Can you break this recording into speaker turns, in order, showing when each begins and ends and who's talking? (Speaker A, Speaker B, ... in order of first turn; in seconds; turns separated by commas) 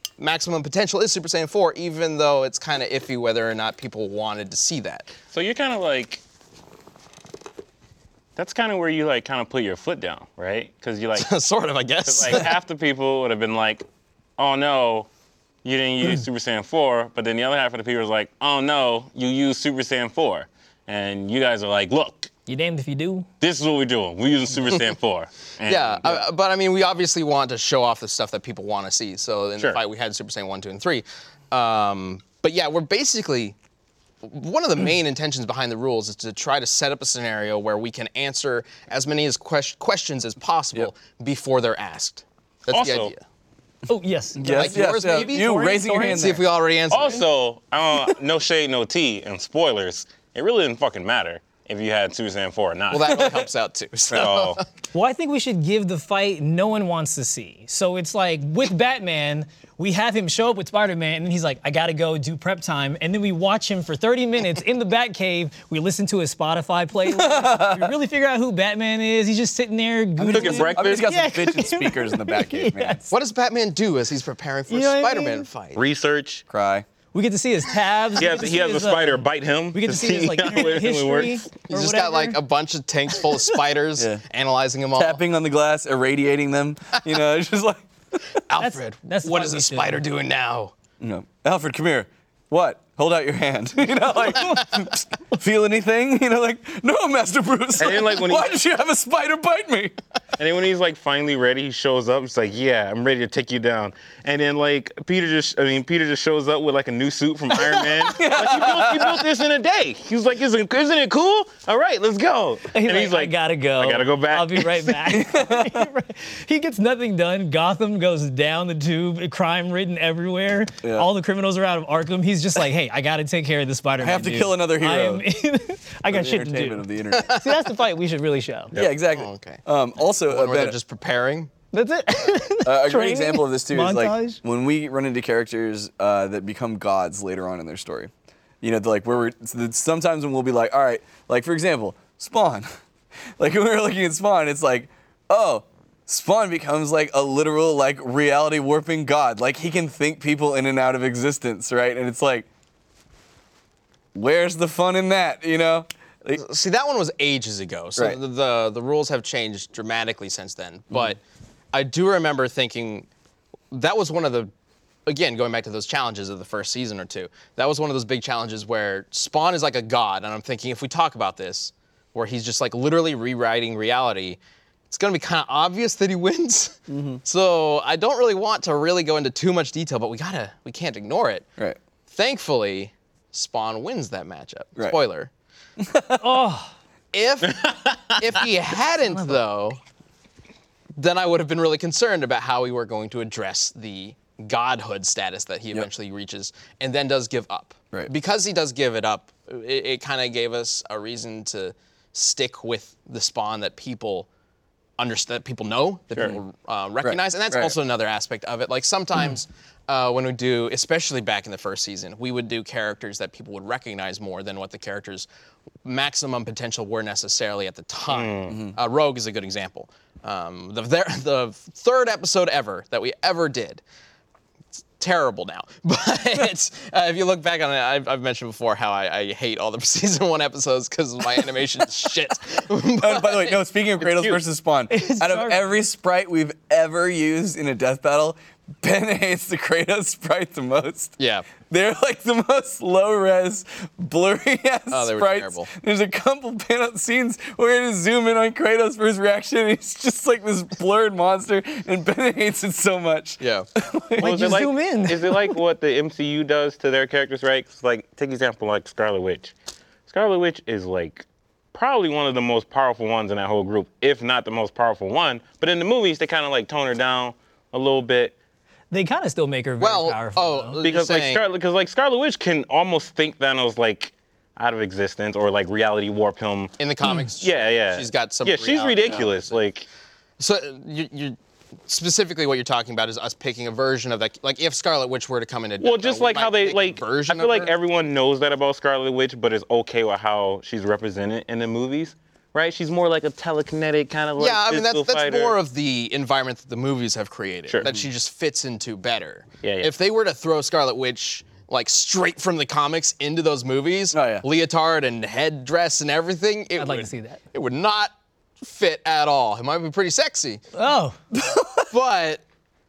Speaker A: 0.2-5.1, Speaker B: 5.3-6.2, Speaker B: 8.3-11.3, Speaker A: 11.2-12.5, Speaker B: 12.0-13.8, Speaker B: 14.4-15.1, Speaker B: 15.6-22.3, Speaker C: 22.5-23.3, Speaker B: 23.4-26.2, Speaker A: 25.6-33.5, Speaker A: 34.2-43.2, Speaker B: 42.7-43.1, Speaker C: 43.9-46.2, Speaker D: 44.4-46.4, Speaker A: 44.4-47.2, Speaker B: 46.9-53.4, Speaker A: 52.9-54.6, Speaker B: 54.1-54.6, Speaker C: 54.9-73.0, Speaker D: 67.1-68.0, Speaker D: 70.2-73.1, Speaker B: 70.2-71.1, Speaker A: 73.1-75.8, Speaker C: 74.7-75.5, Speaker B: 75.7-76.4, Speaker D: 76.5-76.8, Speaker C: 77.1-79.2, Speaker B: 78.2-81.5, Speaker C: 79.7-82.4, Speaker A: 81.7-85.2, Speaker D: 84.9-88.2, Speaker A: 88.5-90.7, Speaker C: 88.6-90.0, Speaker D: 91.0-100.0, Speaker B: 97.8-98.5, Speaker B: 100.4-115.1, Speaker D: 108.0-109.2, Speaker C: 112.7-128.7, Speaker D: 115.1-115.9, Speaker D: 120.8-121.1, Speaker D: 124.0-125.2, Speaker D: 126.1-127.4, Speaker A: 127.2-127.5, Speaker D: 128.7-130.8, Speaker A: 129.1-129.6, Speaker A: 130.2-131.5, Speaker C: 131.7-134.4, Speaker D: 132.6-138.1, Speaker D: 138.6-142.7, Speaker D: 143.4-152.4, Speaker D: 154.1-156.4, Speaker A: 156.3-161.2, Speaker A: 161.7-163.1, Speaker A: 163.7-164.5, Speaker A: 165.1-181.5, Speaker D: 176.9-177.2, Speaker A: 182.1-185.3, Speaker D: 185.8-186.4, Speaker C: 186.2-186.7, Speaker A: 187.1-189.8, Speaker B: 187.5-188.2, Speaker A: 191.0-204.3, Speaker A: 205.0-215.3, Speaker D: 207.0-207.7, Speaker A: 215.8-223.8, Speaker B: 218.1-218.6, Speaker A: 225.0-233.6, Speaker D: 233.0-254.6, Speaker B: 234.1-234.3, Speaker C: 234.9-235.6, Speaker A: 241.2-241.5, Speaker A: 244.9-245.7, Speaker A: 253.4-253.7, Speaker C: 254.2-255.6, Speaker B: 254.2-259.5, Speaker B: 260.1-268.3, Speaker C: 268.9-270.8, Speaker A: 269.8-271.4, Speaker B: 270.8-279.9, Speaker A: 276.8-279.6, Speaker A: 280.4-281.4, Speaker A: 281.9-287.7, Speaker B: 285.8-295.6, Speaker A: 294.4-310.6, Speaker B: 299.6-299.9, Speaker D: 304.1-304.4, Speaker C: 306.8-307.4, Speaker C: 310.7-311.2, Speaker D: 311.3-311.9, Speaker A: 311.9-312.4